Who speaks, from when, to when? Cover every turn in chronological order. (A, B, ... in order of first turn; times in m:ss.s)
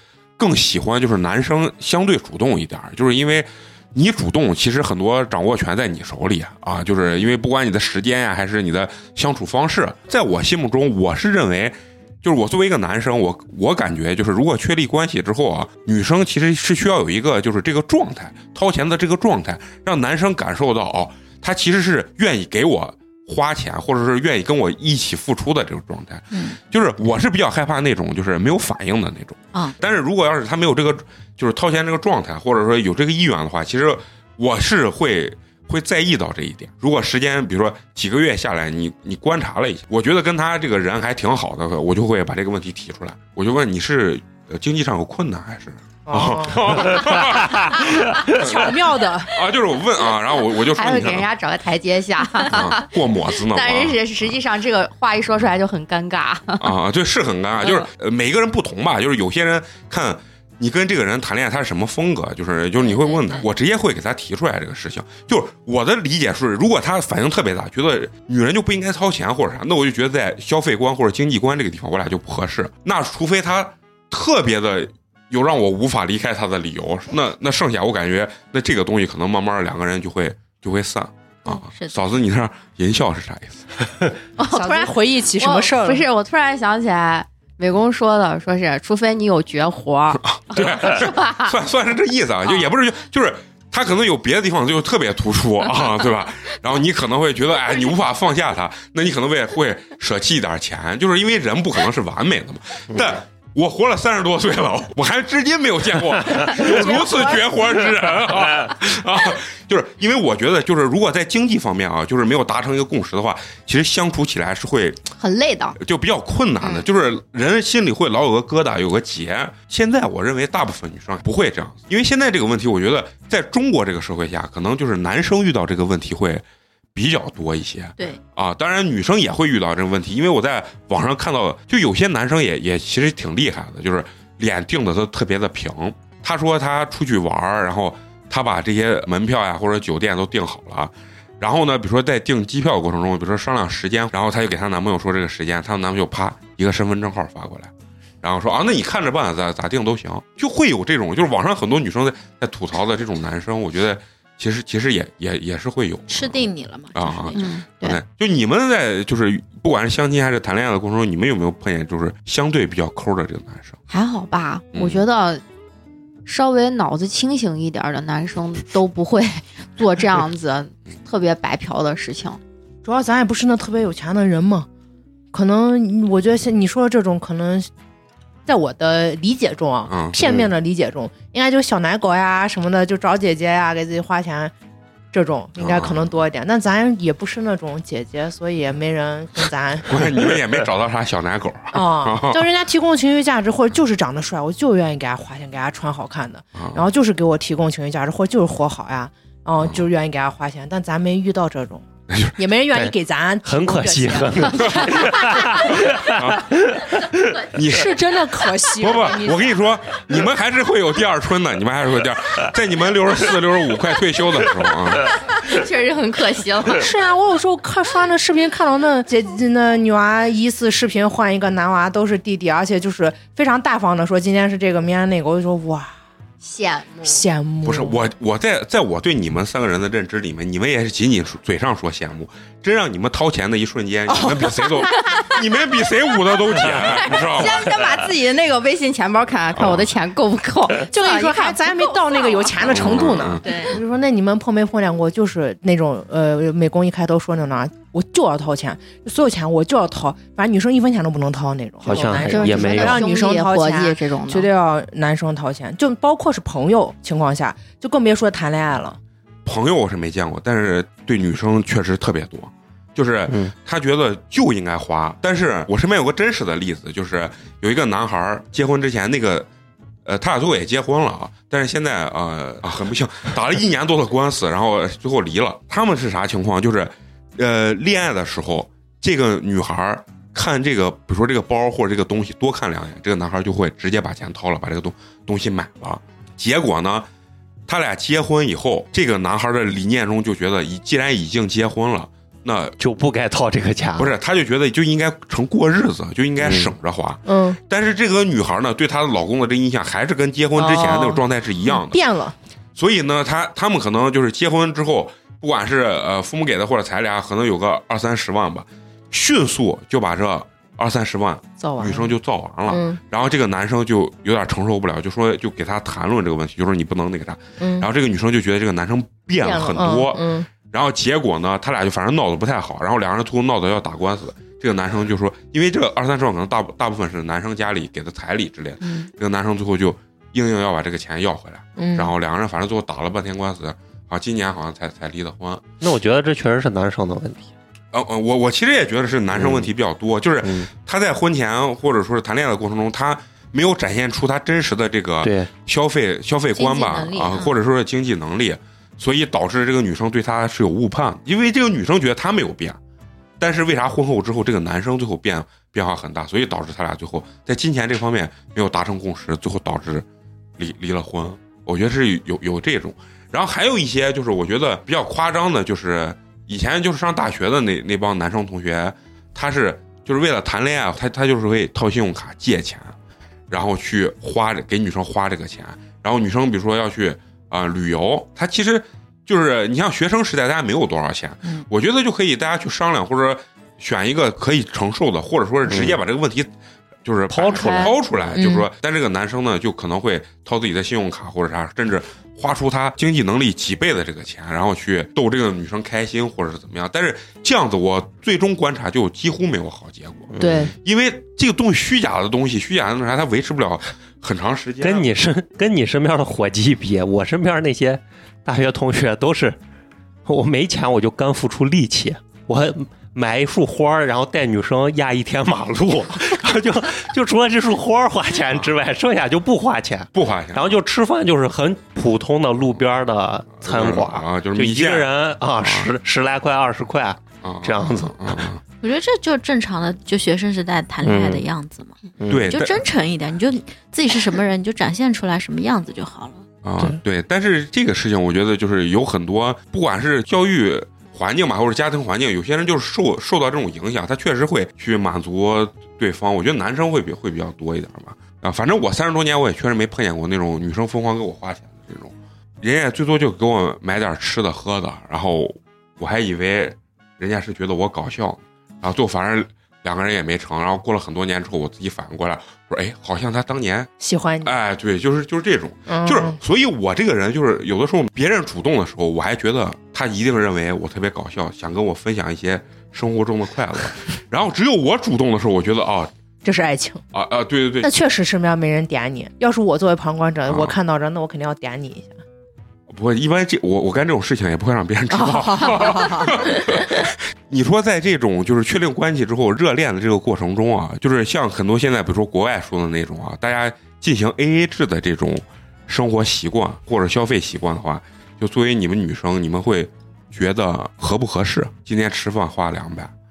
0:00.4-0:51.3 A
0:26.3-0:26.6 B
0:46.1-0:47.2 C
0:48.3-0:49.3 C
0:50.5-0:56.7 D
0:52.5-0:54.4 A
0:56.6-1:23.8 A
1:21.5-1:21.9 B
1:24.4-1:31.6 D
1:24.5-1:26.1 C
1:30.2-1:55.1 A
1:55.2-1:55.8 D
1:55.8-2:06.4 A
2:06.9-2:43.8 A
2:36.1-2:37.5 B
2:37.3-2:38.0 D
2:43.9-2:45.4 D
2:44.7-2:45.0 A
2:46.3-2:52.4 D
2:52.8-2:54.7 C
2:55.3-2:57.7 C
2:58.4-3:04.5 C
2:59.9-3:00.5 A
3:05.1-3:10.0 C
3:05.6-3:06.1 A
3:09.9-3:12.4 A
3:11.7-3:25.5 C
3:16.6-3:16.8 A
3:22.1-3:22.4 A
3:23.4-3:27.4 E
3:24.7-3:25.1 A
3:25.8-3:26.6 A
3:27.4-3:27.9 A
3:27.7-3:29.6 C
3:28.8-3:35.1 A
3:35.4-3:36.9 D
3:36.7-3:45.9 C
3:46.4-3:47.2 D
3:47.0-3:48.0 C
3:47.6-3:57.7 A
3:54.2-3:55.4 D
3:56.8-4:03.8 D
3:59.5-3:59.9 A
4:00.9-4:19.0 C
4:02.7-4:03.4 A
4:11.8-4:13.0 E
4:11.9-4:14.5 D
4:19.4-4:29.5 A
4:30.0-4:47.1 A
4:47.7-4:52.7 A
4:52.8-4:54.1 E
4:54.0-5:02.0 A
4:56.4-4:56.7 E
4:57.3-4:57.6 C
5:00.6-5:02.3 C
5:02.8-5:35.6 A
5:11.6-5:12.2 C
5:12.7-5:13.0 C
5:17.6-5:17.9 C
5:19.4-5:20.5 C
5:31.8-5:32.1 C
5:35.8-5:37.5 E
5:37.9-5:52.8 A
5:39.4-5:39.7 E
5:40.4-5:40.7 E
5:45.2-5:45.5 E
5:46.6-5:47.6 B
5:53.4-6:00.1 A
6:00.6-6:12.9 A
6:13.5-6:26.5 A
6:25.7-6:26.0 E
6:27.0-6:45.1 A
6:27.3-6:28.0 E
6:28.3-6:28.7 C
6:40.3-6:40.7 E
6:40.4-6:40.7 C
6:44.8-6:49.6 E
6:50.3-7:08.4 E
7:00.1-7:00.8 A
7:03.6-7:05.9 A
7:07.4-7:08.6 A
7:08.8-7:12.0 B
7:11.0-7:11.4 E
7:12.2-7:12.6 E
7:12.3-7:12.8 A
7:12.5-7:16.4 B
7:16.6-7:43.9 A
7:44.0-7:44.5 C
7:44.4-7:56.1 A
7:45.9-7:46.4 C
7:56.4-7:57.0 C
7:57.1-7:57.9 A
7:57.8-8:02.2 C
8:00.5-8:00.8 A
8:02.9-8:23.1 A
8:05.3-8:06.4 C